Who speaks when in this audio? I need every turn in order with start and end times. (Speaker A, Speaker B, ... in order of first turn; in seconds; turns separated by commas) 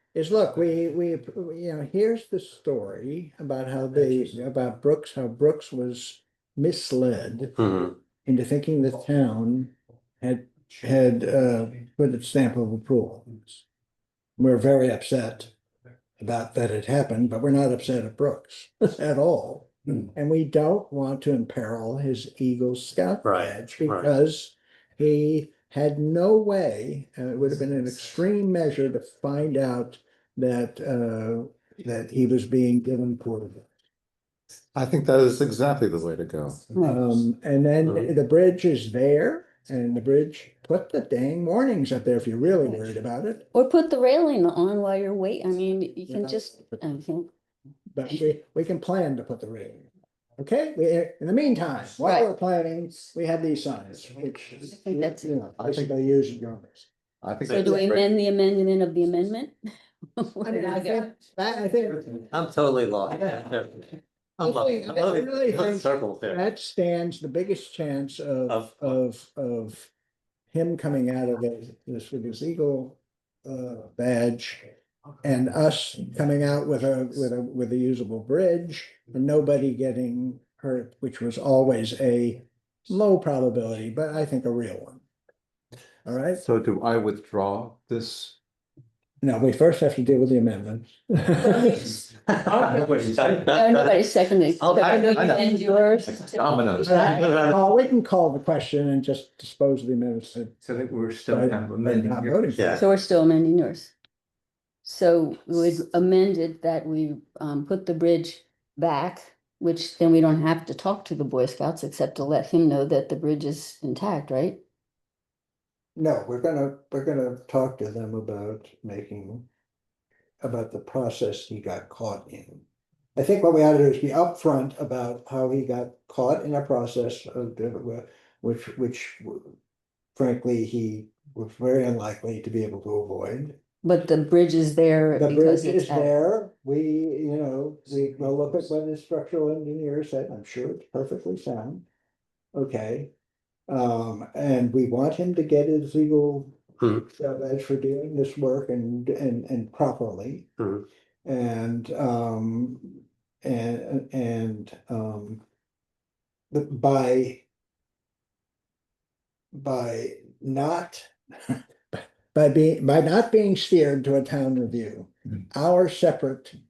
Speaker A: 0.1-7.6, Speaker B: 7.6-7.9, Speaker A: 8.2-13.6, Speaker A: 14.4-15.5, Speaker A: 16.2-33.6, Speaker B: 23.2-24.1, Speaker C: 34.8-36.6, Speaker A: 36.8-43.5, Speaker D: 43.5-47.3, Speaker A: 46.1-46.8, Speaker A: 47.9-56.9, Speaker D: 52.0-52.3, Speaker D: 54.8-55.3, Speaker C: 57.2-58.0, Speaker B: 57.5-57.8, Speaker D: 57.5-59.6, Speaker D: 60.2-61.0, Speaker A: 60.4-62.1, Speaker B: 62.1-63.9, Speaker A: 63.1-63.4, Speaker B: 64.4-66.4, Speaker A: 64.4-69.9, Speaker B: 68.5-68.9, Speaker A: 70.5-74.6, Speaker A: 75.2-85.0, Speaker A: 86.0-86.4, Speaker C: 86.4-88.3, Speaker A: 89.2-92.0, Speaker E: 92.3-93.5, Speaker B: 92.8-93.9, Speaker D: 93.4-97.2, Speaker B: 94.6-95.4, Speaker C: 96.3-96.9, Speaker A: 96.8-100.5, Speaker B: 97.1-97.5, Speaker E: 100.6-102.5, Speaker A: 101.3-102.8, Speaker B: 102.6-102.8, Speaker D: 102.8-103.9, Speaker D: 104.8-114.6, Speaker A: 116.0-119.5, Speaker A: 120.4-122.7, Speaker A: 123.2-129.6, Speaker A: 130.2-133.6, Speaker D: 133.8-136.1, Speaker A: 135.2-141.9, Speaker A: 142.5-143.1, Speaker A: 143.7-150.5, Speaker B: 150.6-150.8, Speaker A: 151.2-155.4, Speaker A: 156.5-157.4, Speaker A: 159.5-166.6